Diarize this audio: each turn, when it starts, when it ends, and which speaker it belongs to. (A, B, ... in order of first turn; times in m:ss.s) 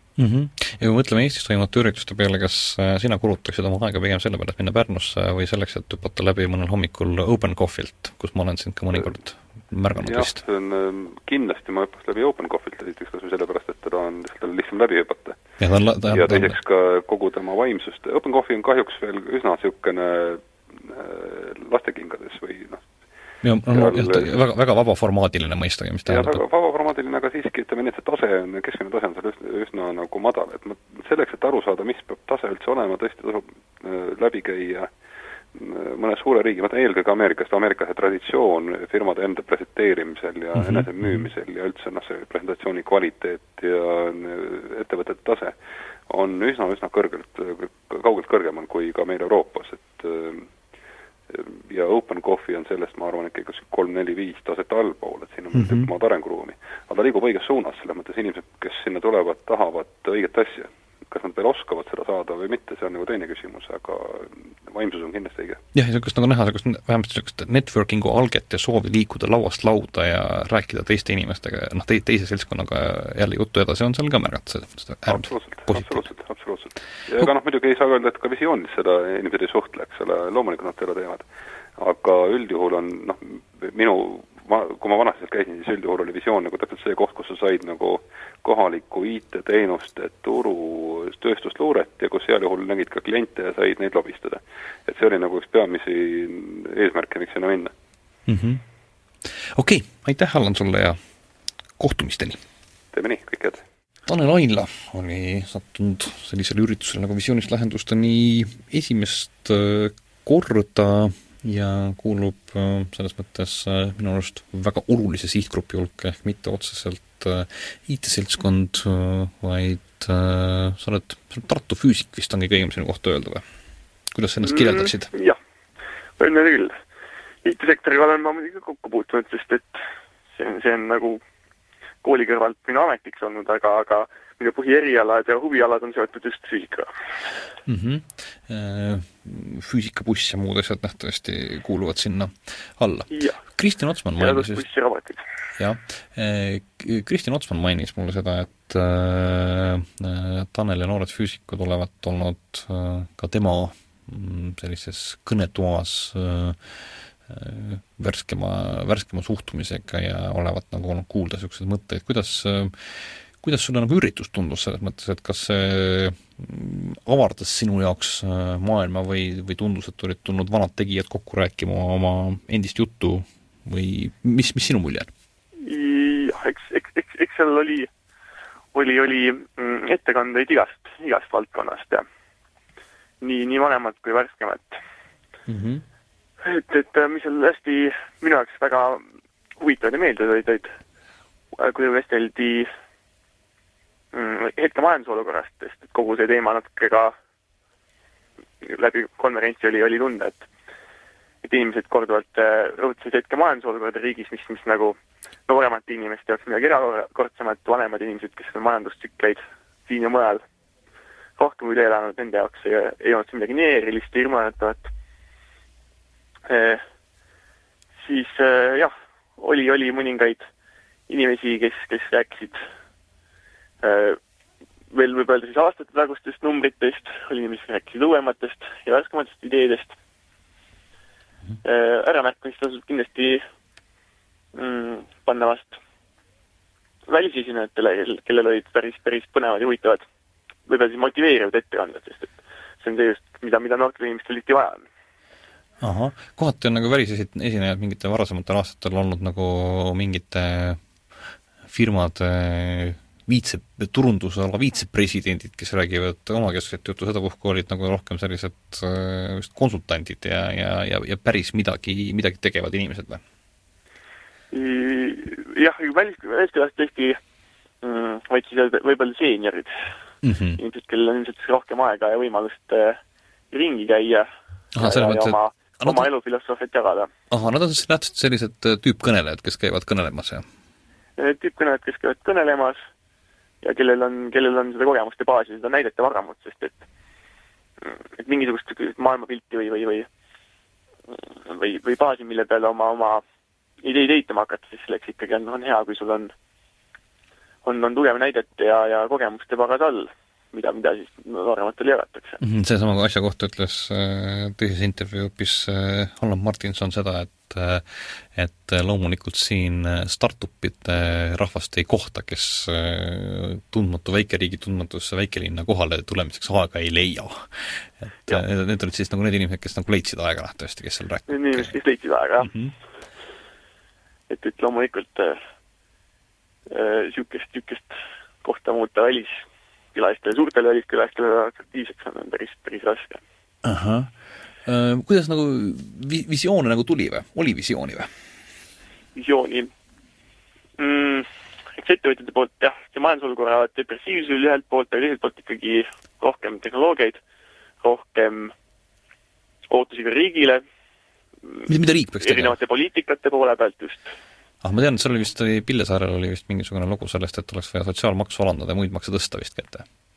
0:00.2-0:10.4 A
0:10.0-0:15.4 B
0:15.6-0:16.6 A
0:16.1-0:22.9 B
0:23.4-0:26.4 A
0:23.7-0:24.3 B
0:26.1-0:34.9 B
0:35.5-0:45.6 B
0:40.6-0:41.2 A
0:46.1-0:50.5 B
0:51.3-1:05.6 B
0:55.5-0:55.9 A
1:05.7-1:16.1 A
1:15.1-1:21.3 B
1:21.8-1:37.7 B
1:38.3-1:38.6 A
1:39.5-1:41.0 A
1:41.8-1:42.4 A
1:42.9-1:43.6 B
1:44.1-2:03.4 A
2:04.1-2:05.1 A
2:04.4-2:05.4 C
2:06.2-2:06.8 C
2:07.4-2:09.8 C
2:10.3-2:11.2 C
2:12.0-2:16.9 C
2:17.7-2:24.6 A
2:23.1-2:23.4 C
2:24.2-2:25.2 C
2:25.6-2:55.1 A
2:55.6-2:57.9 C
2:58.7-3:02.1 C
3:03.2-3:04.8 C
3:05.5-3:05.8 A
3:06.4-3:09.0 C
3:09.6-3:10.8 C
3:11.6-3:12.7 C
3:14.1-3:17.2 C
3:18.6-3:20.5 C
3:21.4-3:30.4 C
3:31.4-3:34.9 C
3:36.5-3:36.8 C
3:38.0-3:40.5 C
3:41.1-3:42.6 C
3:43.8-3:44.2 C
3:44.9-3:50.0 C
3:51.6-3:53.4 C
3:54.6-3:55.8 C
3:57.1-4:00.0 C
4:00.7-4:04.8 C
4:05.8-4:10.8 A
4:11.7-4:23.2 A
4:24.5-4:27.2 C
4:27.8-4:29.9 C
4:30.2-4:30.6 A
4:30.6-4:33.0 C
4:33.5-4:37.1 C
4:34.8-4:36.1 A
4:37.3-4:40.4 A
4:41.2-4:42.8 C
4:43.6-4:46.8 C
4:47.9-4:50.1 C
4:51.1-4:53.2 C
4:53.8-4:56.3 C
4:57.6-5:02.4 C
5:02.4-5:21.8 A
5:21.3-5:22.5 C
5:22.4-5:22.7 A
5:24.3-5:25.4 C
5:26.7-5:33.2 C
5:33.6-5:34.1 A
5:34.6-5:38.1 A
5:39.2-5:39.7 C
5:40.8-5:47.2 C
5:47.8-5:48.5 C
5:49.7-5:50.6 C
5:51.7-5:52.6 A
5:52.2-5:54.2 C
5:54.6-5:59.8 A